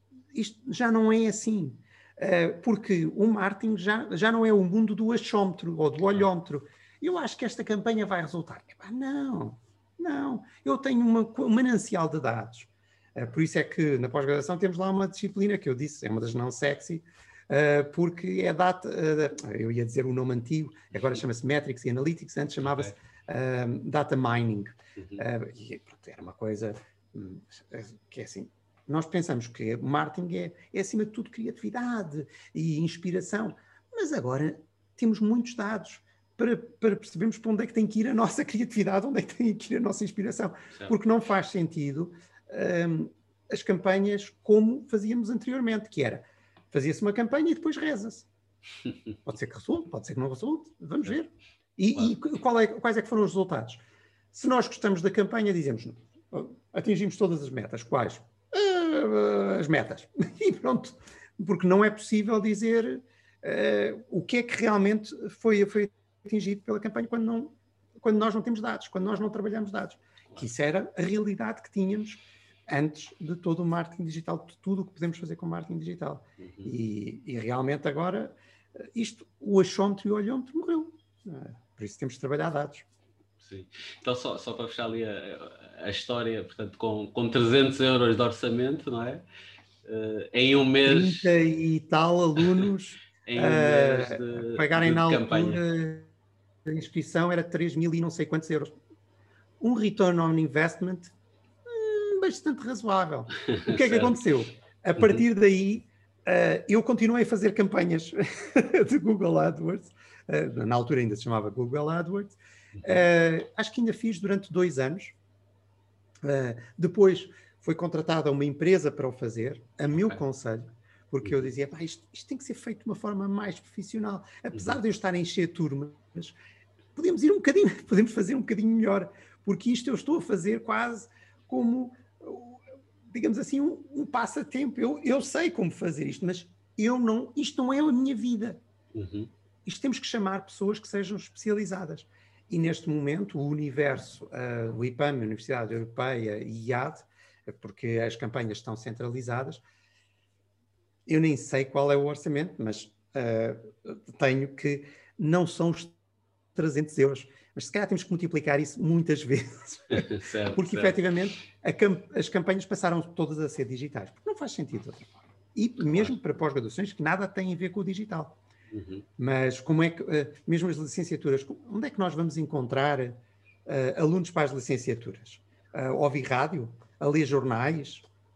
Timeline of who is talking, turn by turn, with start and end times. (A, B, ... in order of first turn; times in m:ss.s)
0:00.3-0:48.3 A
0:25.0-0:25.2 B
0:49.2-0:53.8 A
0:54.3-1:22.8 A
1:16.4-1:16.7 B
1:23.4-1:29.2 B
1:29.8-1:31.3 B
1:30.8-1:36.1 A
1:33.2-1:35.6 B
1:36.6-1:38.7 A
1:39.6-1:41.1 A
1:41.6-1:55.2 A
1:43.5-1:44.1 B
1:56.2-2:06.4 A
2:07.0-2:18.6 A
2:18.9-2:19.3 B
2:19.6-2:29.6 A
2:31.1-2:36.0 A
2:36.5-2:48.4 A
2:39.9-2:41.0 B
2:45.8-2:46.1 B
2:48.7-2:49.0 B
2:49.2-2:58.0 A